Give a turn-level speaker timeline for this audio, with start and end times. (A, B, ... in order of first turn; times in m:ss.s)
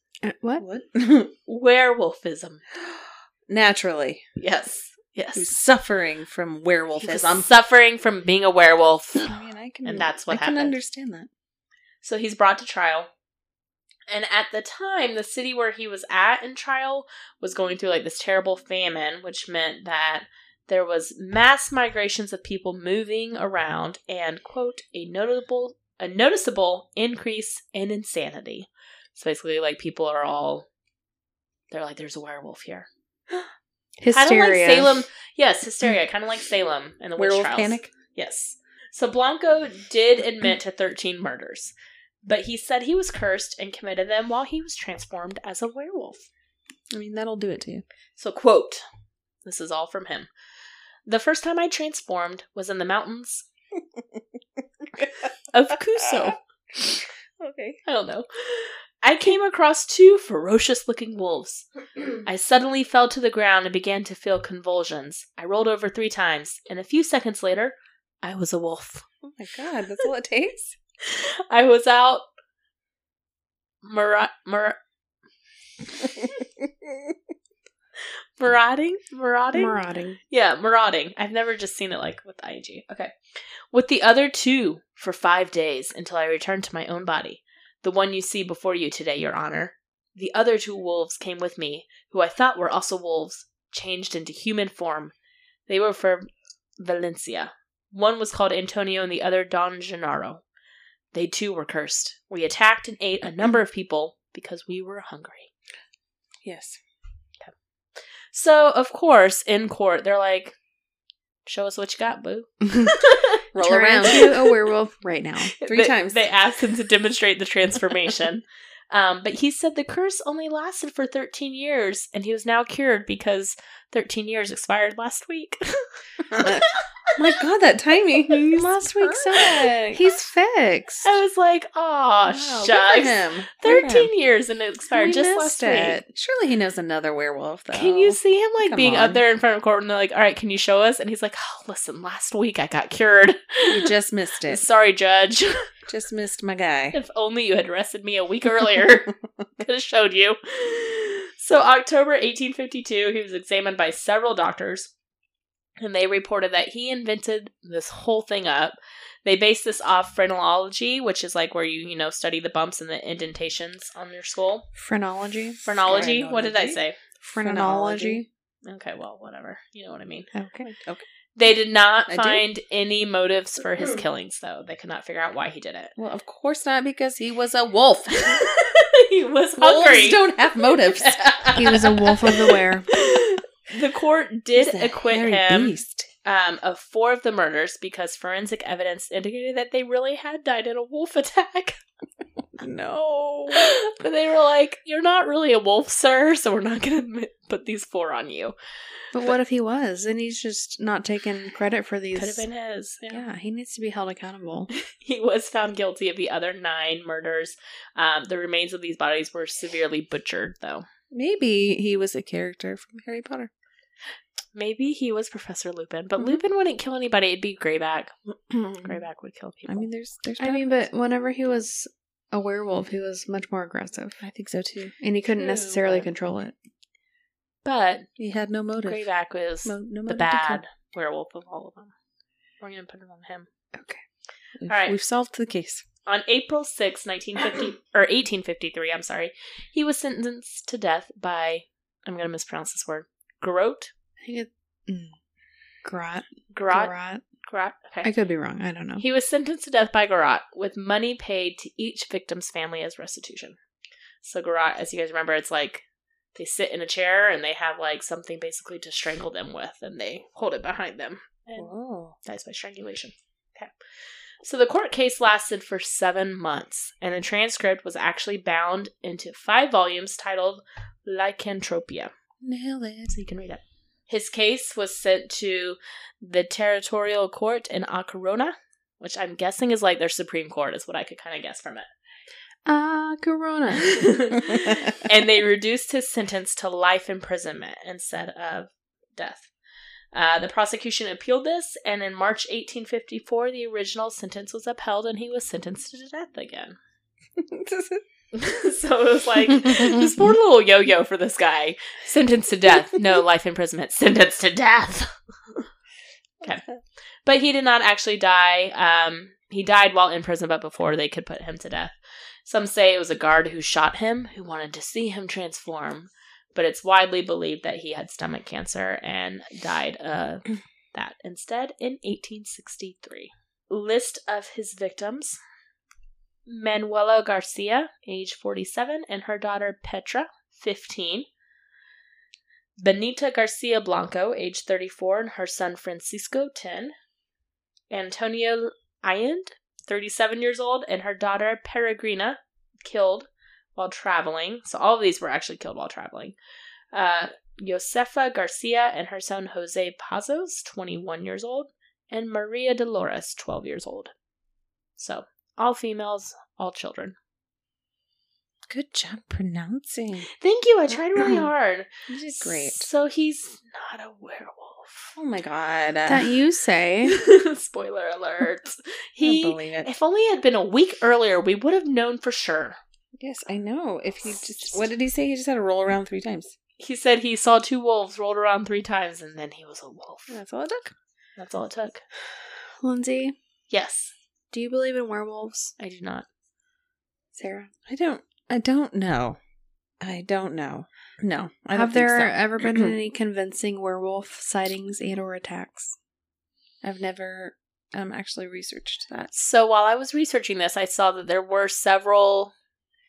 0:00.2-0:00.6 A
0:00.6-0:01.3 B
0:01.5-0:02.6 C
0:02.8-0:04.2 B
0:04.4-0:05.5 C
0:05.3-0:07.5 B
0:07.0-0:09.3 C
0:09.2-0:11.3 B
0:09.8-0:10.8 C
0:12.0-0:13.1 C
0:14.1-0:30.7 C
0:31.7-0:32.9 C
0:34.0-0:35.0 A
0:34.1-0:46.3 C
0:37.2-0:37.9 B
0:46.9-0:47.8 B
0:48.2-0:48.8 C
0:49.4-0:50.3 C
0:51.0-0:53.4 C
0:54.8-0:57.8 B
0:55.5-0:56.4 C
0:57.8-1:01.7 C
1:02.2-1:09.0 C
1:09.2-1:10.8 B
1:11.0-1:12.2 C
1:13.8-1:14.8 C
1:18.4-1:19.8 C
1:19.5-1:20.2 A
1:20.3-1:23.1 C
1:23.7-1:35.1 C
1:35.7-1:36.3 C
1:36.8-1:40.4 C
1:41.1-1:45.5 C
1:46.4-1:46.8 B
1:48.3-1:50.6 C
1:51.4-1:53.4 C
1:53.5-1:54.4 B
1:53.6-1:55.5 A
1:55.6-2:05.8 C
1:55.6-1:56.3 B
2:06.3-2:10.0 B
2:06.4-2:06.6 C
2:08.5-2:11.1 A
2:11.0-2:16.0 C
2:12.3-2:14.1 B
2:14.9-2:16.0 A
2:15.2-2:19.2 B
2:17.7-2:23.9 C
2:23.7-2:24.6 B
2:24.4-2:25.7 C
2:25.9-2:27.0 B
2:26.9-2:34.9 C
2:35.8-2:44.6 C
2:44.8-2:45.6 A
2:45.6-2:47.0 C
2:45.7-2:46.8 B
2:47.2-2:48.2 A
2:47.4-2:48.3 B
2:48.6-2:50.3 C
2:50.3-2:50.7 A
2:50.6-2:51.0 B
2:51.4-2:55.9 C
2:52.1-2:52.4 B
2:56.0-2:58.4 B
2:58.2-3:11.8 C
2:59.6-3:01.8 B
3:01.6-3:02.9 A
3:04.6-3:06.1 B
3:12.6-3:13.7 B
3:13.5-3:18.5 C
3:19.1-3:22.4 A
3:22.1-3:23.2 C
3:23.1-3:24.7 A
3:24.9-3:30.8 C
3:31.1-3:33.5 B
3:34.5-3:38.1 C
3:38.5-3:39.0 B
3:38.8-3:39.9 C
3:39.6-3:40.8 B
3:40.4-3:44.2 A
3:44.2-3:45.0 B
3:45.0-3:46.5 A
3:45.5-3:46.0 C
3:47.6-3:48.1 C
3:48.2-3:49.1 B
3:48.8-3:51.9 C
3:49.6-3:50.6 B
3:52.6-3:53.5 C
3:53.7-3:54.0 A
3:54.6-3:55.8 B
3:54.7-3:55.0 C
3:56.0-4:03.9 C
4:04.2-4:05.1 A
4:05.8-4:07.2 A
4:06.5-4:06.9 C
4:07.4-4:08.1 C
4:08.0-4:09.0 A
4:09.0-4:13.6 C
4:14.2-4:15.8 C
4:16.4-4:23.7 C
4:21.6-4:22.1 B
4:24.4-4:32.1 C
4:32.4-4:33.2 B
4:33.1-4:41.8 C
4:42.6-4:44.1 A
4:43.8-4:49.5 C
4:44.7-4:45.0 B
4:50.1-4:56.8 C
4:57.4-4:58.0 B
4:58.3-5:05.1 C
4:59.6-5:00.1 B
5:06.4-5:06.8 B
5:07.2-5:25.4 C
5:26.4-5:31.3 C
5:32.8-5:36.9 C
5:37.9-5:46.4 C
5:46.9-5:54.1 C
5:55.0-5:57.2 C
5:58.7-6:00.3 B
6:00.4-6:05.2 C
6:02.1-6:02.9 B
6:05.2-6:06.4 B
6:06.0-6:07.2 A
6:07.1-6:12.8 C
6:09.2-6:09.9 B
6:13.2-6:16.5 B
6:14.2-6:14.9 C
6:16.8-6:20.4 C
6:20.3-6:20.9 B
6:21.4-6:22.0 C
6:22.8-6:23.3 A
6:23.7-6:24.1 C
6:24.5-6:25.7 A
6:25.8-6:26.2 C
6:27.3-6:27.7 A
6:27.9-6:29.4 B
6:30.0-6:33.0 B
6:31.7-6:35.9 A
6:36.8-6:39.3 B
6:39.3-6:42.5 C